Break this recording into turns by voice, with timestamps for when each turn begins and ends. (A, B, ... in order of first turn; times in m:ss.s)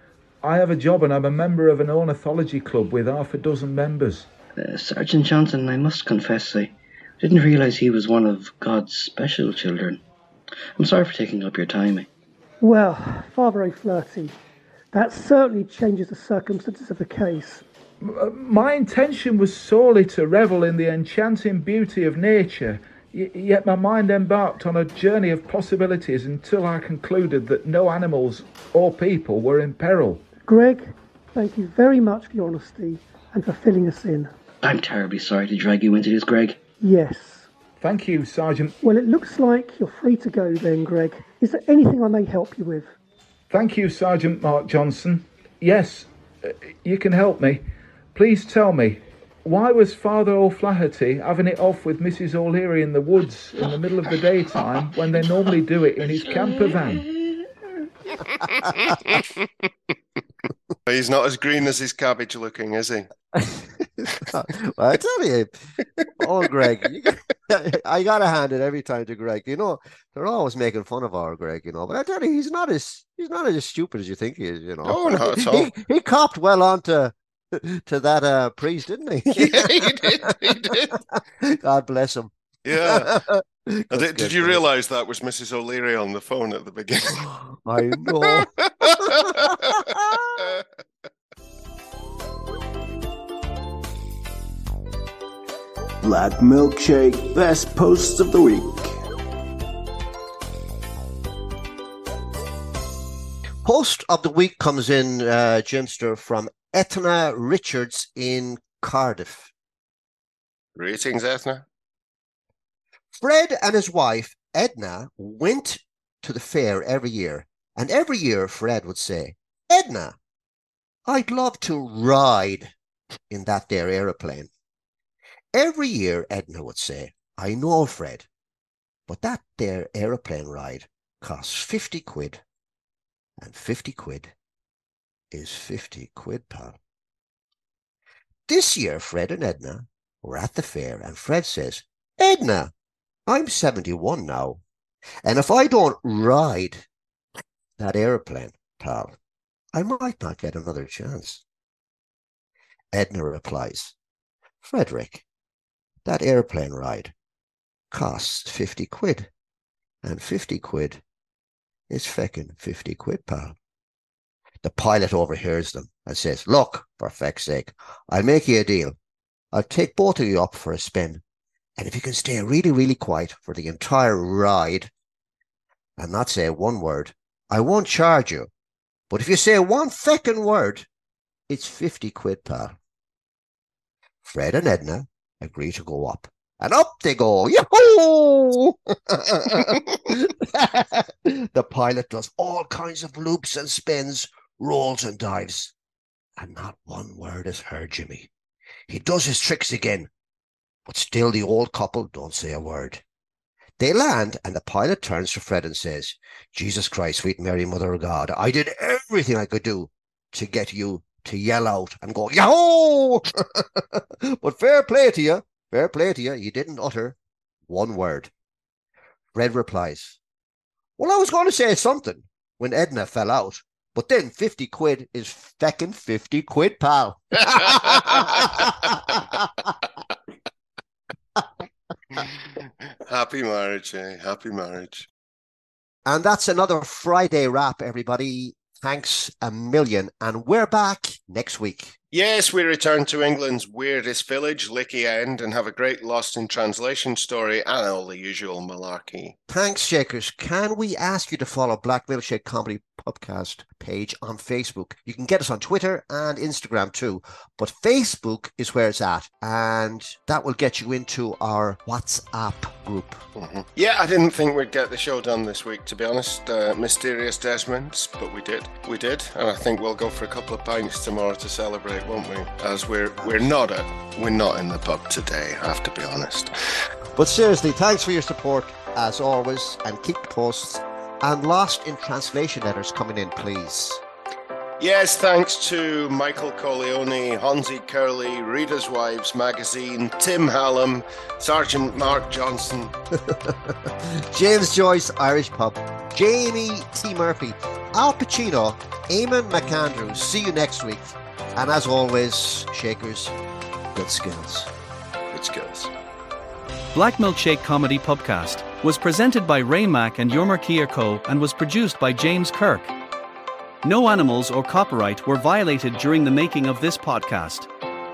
0:00.4-0:04.3 A
0:04.6-0:10.0 B
0:10.8-0:12.1 B
0:12.6-0:14.4 C
0:14.9-0:17.6 C
0:18.0-0:30.2 A
0:30.5-0:34.3 C
0:34.6-0:36.6 B
0:36.8-0:37.5 C
0:37.8-0:38.8 A
0:38.8-0:43.0 C
0:43.5-0:47.6 A
0:48.2-0:57.1 A
0:58.5-0:59.1 D
0:58.9-0:59.5 E
1:00.9-1:03.1 E
1:03.3-1:05.5 D
1:06.2-1:24.6 D
1:14.8-1:15.7 E
1:19.4-1:21.0 E
1:22.6-1:23.2 E
1:23.9-1:27.4 E
1:27.6-1:30.5 D
1:28.2-1:29.9 E
1:36.0-1:38.9 F
1:43.6-1:49.5 D
1:50.8-1:51.6 E
1:53.2-2:00.2 D
2:01.1-2:02.7 D
2:03.3-2:04.5 D
2:05.5-2:08.3 D
2:09.1-2:12.4 D
2:13.4-2:14.3 D
2:15.3-2:16.8 D
2:18.5-2:22.7 D
2:23.3-2:24.6 D
2:25.2-2:26.8 D
2:27.8-2:29.2 D
2:29.7-2:31.4 D
2:32.9-2:33.9 D
2:34.6-2:35.2 D
2:36.0-2:37.1 D
2:37.9-2:39.3 D
2:40.0-2:41.0 D
2:41.9-2:43.6 D
2:44.6-2:49.0 D
2:49.5-2:51.2 D
2:51.8-2:54.9 D
2:56.0-2:58.5 D
2:59.1-3:00.9 D
3:01.5-3:02.8 D
3:04.2-3:15.7 D
3:16.4-3:18.3 D
3:18.9-3:20.1 D
3:20.9-3:23.0 D
3:23.8-3:37.2 D
3:37.7-3:38.3 D
3:39.3-3:40.2 D
3:41.0-3:49.7 D
3:47.7-3:48.9 E
3:53.1-3:55.1 E
3:56.1-4:02.0 D
4:02.1-4:09.4 E
4:09.5-4:23.2 D
4:23.4-4:36.5 E
4:33.2-4:33.5 D
4:37.2-4:44.0 D
4:44.8-4:52.9 E
4:53.2-5:03.4 D
5:03.9-5:04.7 D
5:05.3-5:05.9 E
5:06.9-5:12.9 G
5:13.8-5:17.7 G